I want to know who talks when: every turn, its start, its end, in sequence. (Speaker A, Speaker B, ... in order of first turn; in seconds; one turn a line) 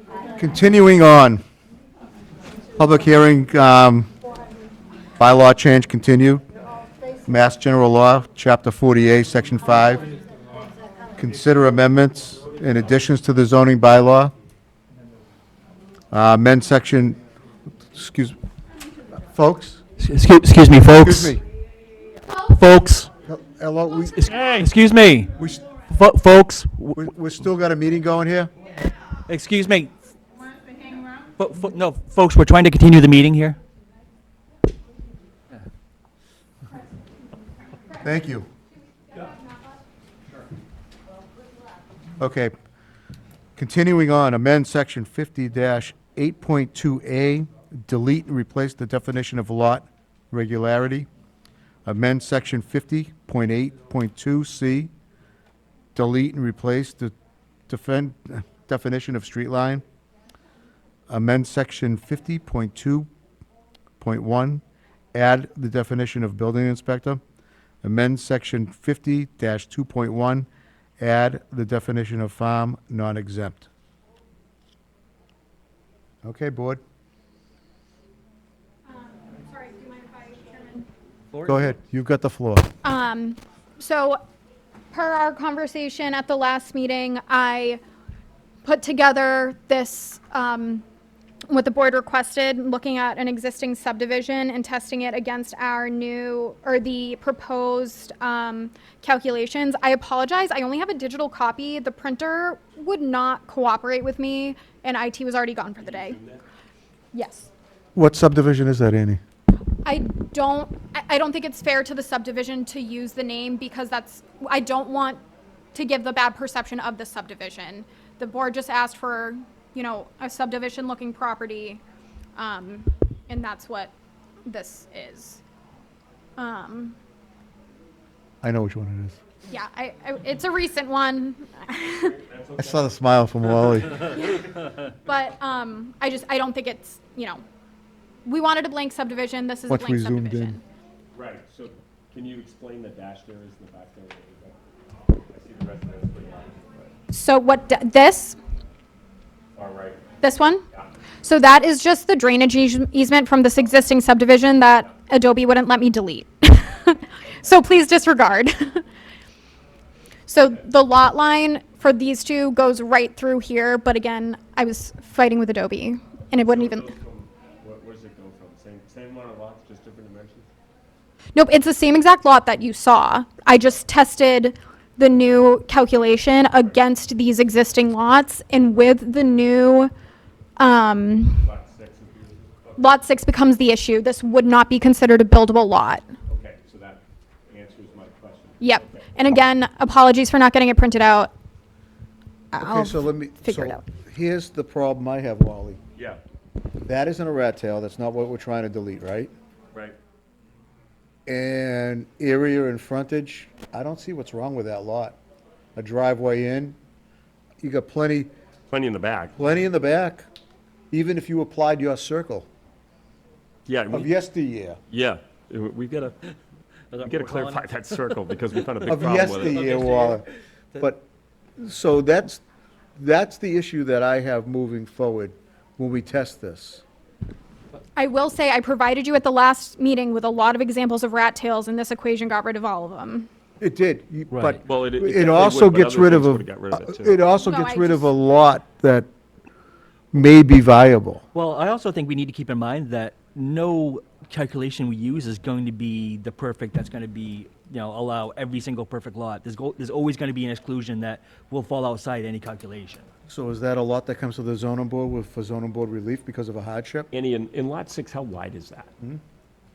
Speaker A: 0.3-1.4
Speaker A: 2.8-4.1
Speaker A: 5.2-6.4
Speaker A: 7.3-10.1
Speaker A: 11.2-14.3
Speaker A: 16.1-17.2
Speaker A: 17.9-18.4
Speaker A: 19.3-19.8
Speaker B: 20.0-21.4
Speaker A: 21.0-21.4
Speaker B: 22.6-23.1
Speaker A: 23.2-24.5
Speaker B: 24.2-25.3
Speaker A: 25.4-25.6
Speaker B: 25.9-27.0
Speaker A: 26.9-28.5
Speaker B: 29.3-29.9
Speaker B: 31.4-33.6
Speaker A: 38.0-38.5
Speaker C: 39.2-39.6
Speaker A: 42.2-42.5
Speaker A: 43.5-51.1
Speaker A: 51.8-54.9
Speaker A: 55.9-57.1
Speaker A: 57.7-59.8
Speaker A: 61.1-63.1
Speaker A: 64.0-64.6
Speaker A: 65.1-67.2
Speaker A: 67.8-70.5
Speaker A: 71.0-73.7
Speaker A: 76.2-76.8
Speaker C: 78.8-80.9
Speaker B: 81.3-81.6
Speaker A: 81.5-82.7
Speaker C: 82.8-84.2
Speaker C: 84.9-87.8
Speaker C: 88.6-90.8
Speaker C: 91.5-106.2
Speaker D: 105.8-106.4
Speaker C: 107.1-107.5
Speaker A: 107.9-109.2
Speaker C: 109.8-115.2
Speaker C: 115.7-121.8
Speaker C: 122.3-123.9
Speaker C: 124.5-125.4
Speaker C: 126.4-127.0
Speaker A: 128.4-129.2
Speaker C: 129.5-132.1
Speaker D: 131.9-132.9
Speaker A: 132.6-134.1
Speaker C: 134.2-137.4
Speaker C: 138.2-140.6
Speaker A: 139.7-140.6
Speaker D: 141.1-144.6
Speaker D: 145.3-146.9
Speaker C: 147.1-148.4
Speaker D: 149.6-150.0
Speaker C: 150.2-150.6
Speaker C: 151.2-158.8
Speaker C: 160.3-166.9
Speaker D: 166.4-170.5
Speaker C: 171.3-179.9
Speaker C: 180.6-181.4
Speaker D: 181.3-182.9
Speaker C: 182.8-186.1
Speaker D: 186.3-189.1
Speaker C: 188.6-191.3
Speaker C: 192.5-193.8
Speaker A: 192.6-195.8
Speaker D: 195.9-196.2
Speaker A: 196.8-199.3
Speaker A: 201.2-205.2
Speaker A: 205.8-206.8
Speaker A: 207.6-208.3
Speaker D: 208.7-209.3
Speaker A: 209.4-210.2
Speaker A: 210.9-212.5
Speaker D: 213.7-214.1
Speaker A: 213.9-214.8
Speaker D: 214.9-216.3
Speaker B: 216.9-217.6
Speaker D: 216.9-219.8
Speaker A: 218.9-220.2
Speaker B: 219.4-220.2
Speaker A: 220.8-221.0
Speaker A: 221.6-222.4
Speaker A: 223.0-226.8
Speaker C: 227.9-233.3
Speaker A: 233.6-239.1
Speaker B: 234.3-234.6
Speaker D: 234.6-237.2
Speaker C: 237.3-238.1
Speaker A: 240.1-241.2
Speaker B: 241.3-253.1
Speaker A: 253.3-257.1
Speaker D: 257.1-258.9